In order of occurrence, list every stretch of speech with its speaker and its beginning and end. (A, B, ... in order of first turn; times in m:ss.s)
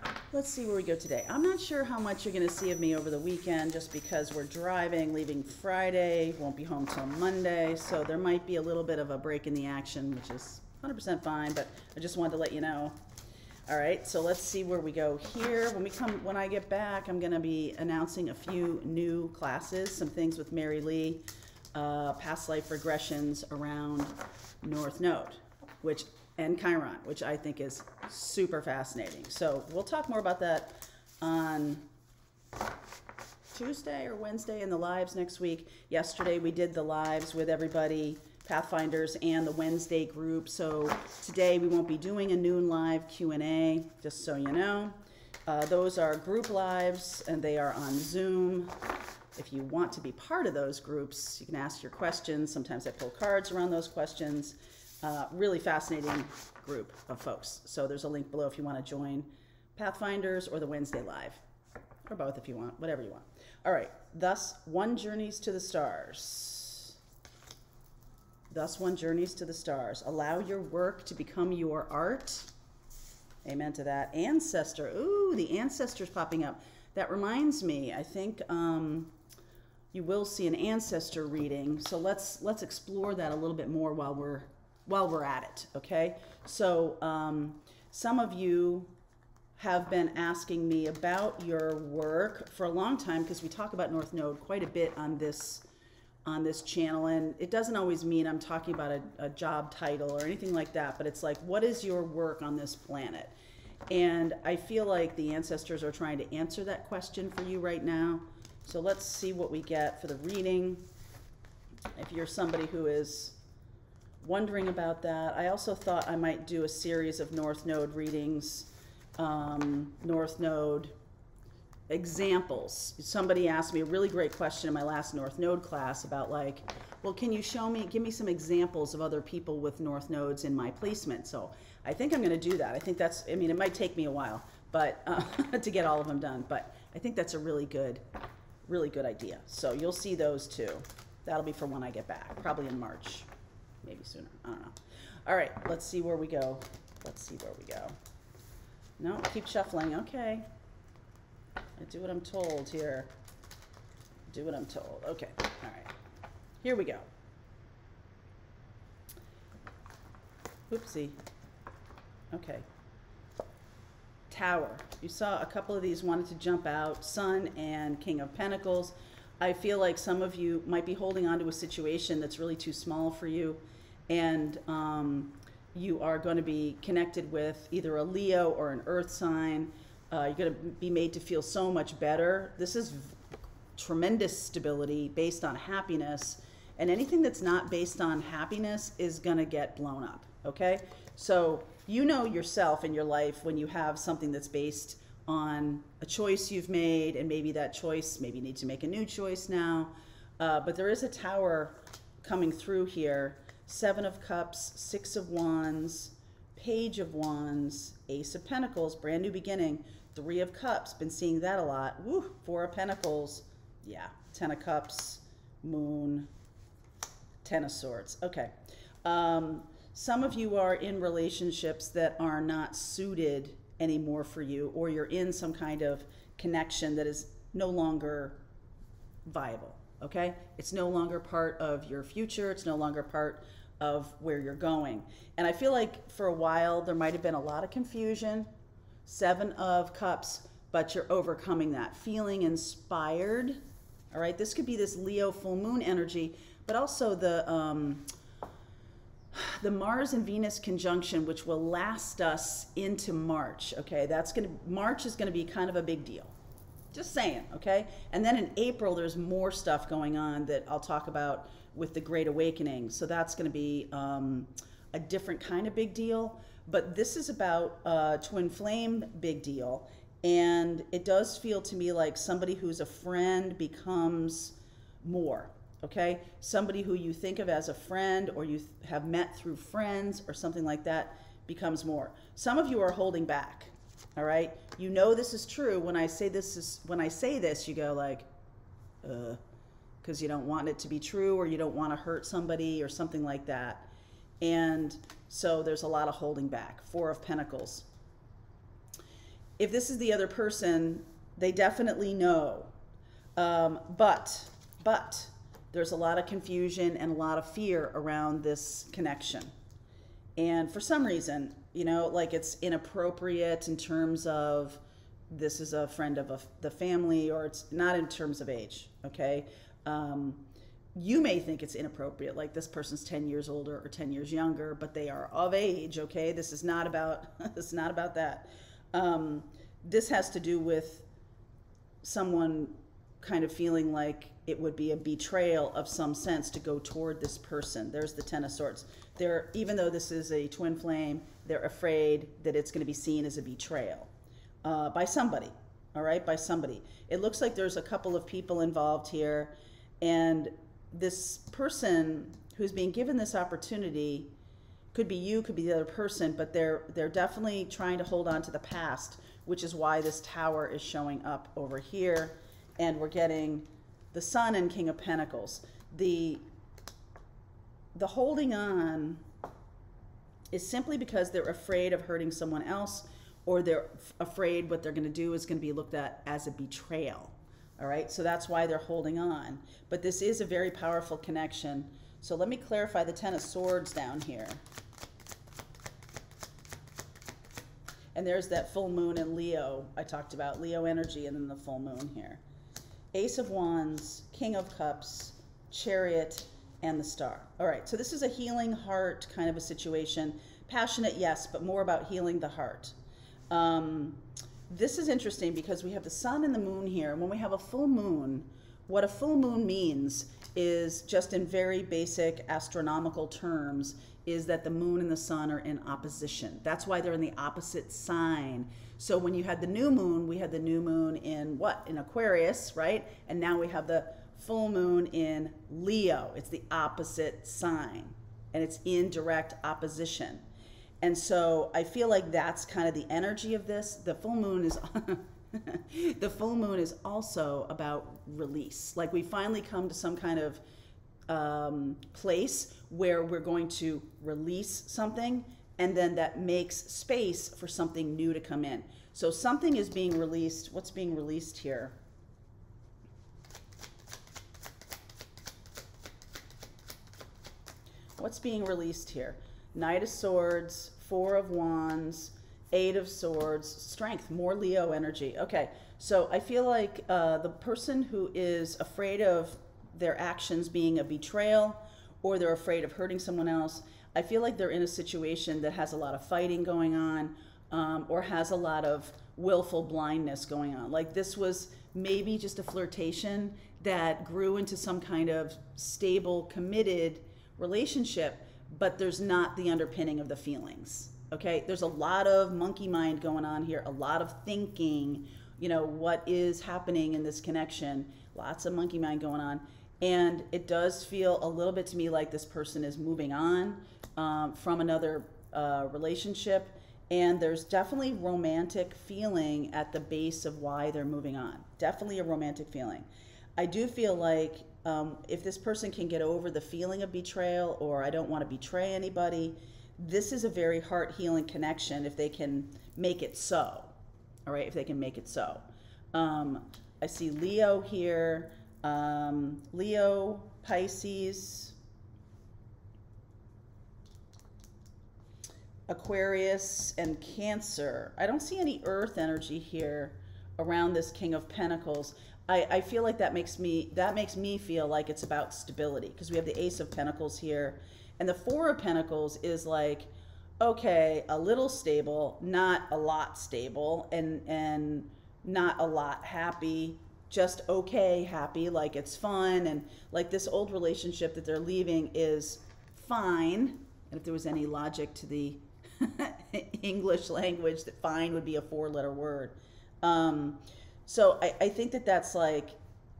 0:00.3-0:13.0 A
0:13.7-0:31.8 A
0:33.5-0:48.7 A
0:49.3-1:01.4 A
1:02.0-1:07.0 A
1:08.5-1:12.5 A
1:13.4-1:19.1 A
1:19.9-1:28.9 A
1:29.6-1:35.6 A
1:36.2-1:43.3 A
1:43.9-1:50.9 A
1:52.0-1:53.4 A
1:54.2-2:00.9 A
2:01.9-2:18.0 A
2:18.6-2:23.3 A
2:23.8-2:28.0 A
2:29.0-2:30.5 A
2:31.8-2:33.1 A
2:34.3-2:35.9 A
2:36.6-2:37.1 A
2:40.7-2:41.2 A
2:42.3-2:42.6 A
2:44.3-3:03.2 A
3:03.8-3:36.3 A
3:37.4-3:48.4 A
3:49.2-3:58.5 A
3:59.0-4:03.6 A
4:04.1-4:08.1 A
4:09.3-4:16.3 A
4:16.9-4:48.3 A
4:49.0-4:49.4 A
4:50.0-4:53.9 A
4:54.4-4:57.9 A
4:59.6-5:02.7 A
5:03.4-5:09.5 A
5:10.4-5:31.0 A
5:32.0-5:44.1 A
5:44.6-5:54.3 A
5:54.9-6:06.4 A
6:07.9-6:09.2 A
6:10.5-6:24.6 A
6:28.1-6:32.4 A
6:33.1-6:43.0 A
6:43.5-7:10.4 A
7:11.0-7:20.6 A
7:21.3-7:32.0 A
7:38.2-8:33.0 A
8:33.6-8:43.9 A
8:44.4-8:51.8 A
8:55.9-9:32.8 A